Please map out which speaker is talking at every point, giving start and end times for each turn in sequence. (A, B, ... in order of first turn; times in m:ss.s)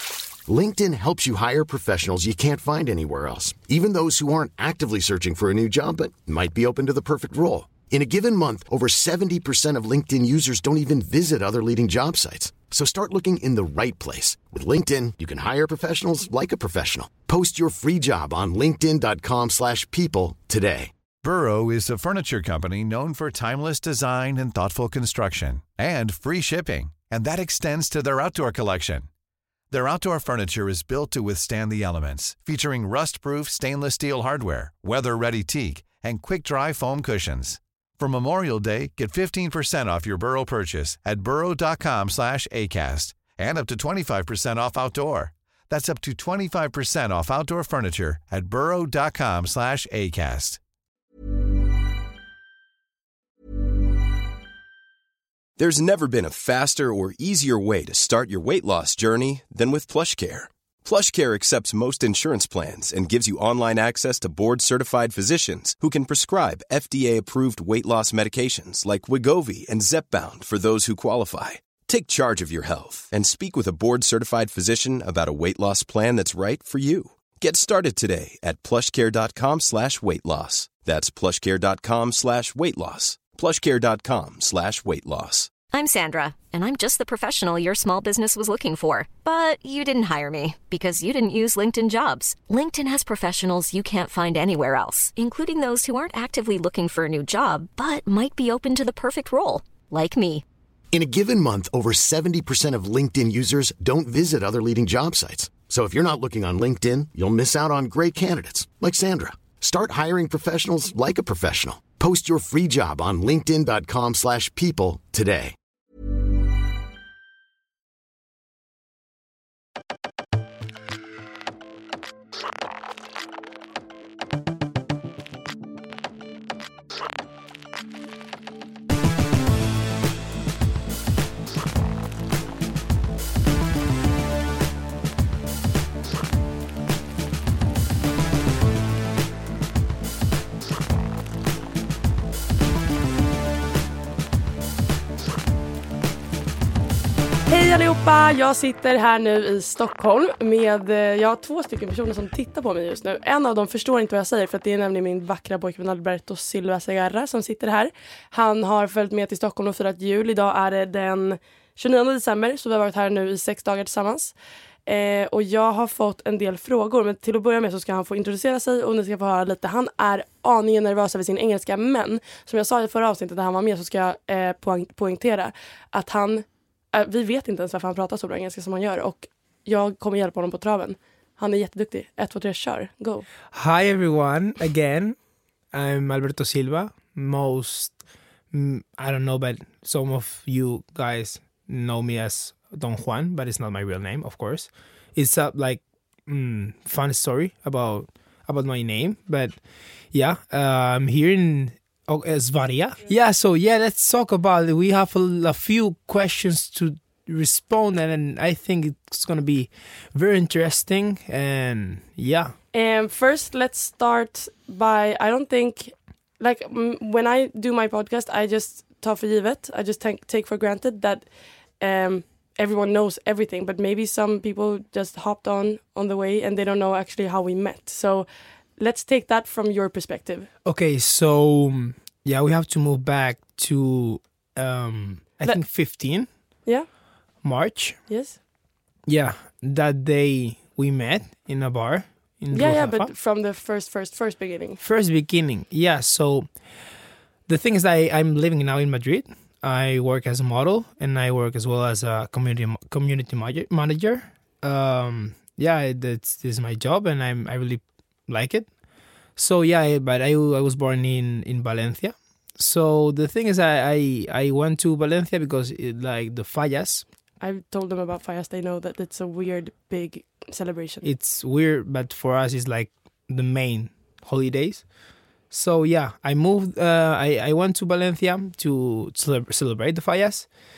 0:00.5-0:20.9 A
0:21.2-0:29.1 B
0:29.7-0:50.6 B
0:55.6-1:25.5 C
1:25.7-1:40.4 D
1:40.9-1:55.6 A
2:27.5-2:44.4 E
2:44.9-3:03.3 E
3:03.5-3:05.2 F
3:05.7-3:08.0 F
3:08.5-3:19.6 F
3:20.1-3:32.6 F
3:32.7-3:50.5 E
3:50.6-3:56.3 F
3:57.4-3:58.0 F
3:58.1-3:58.4 E
3:59.1-4:03.1 F
4:02.5-4:04.8 E
4:04.8-4:06.5 F
4:07.5-4:18.7 F
4:19.4-4:27.1 F
4:27.4-4:31.0 E
4:31.0-4:34.9 F
4:35.5-4:40.5 F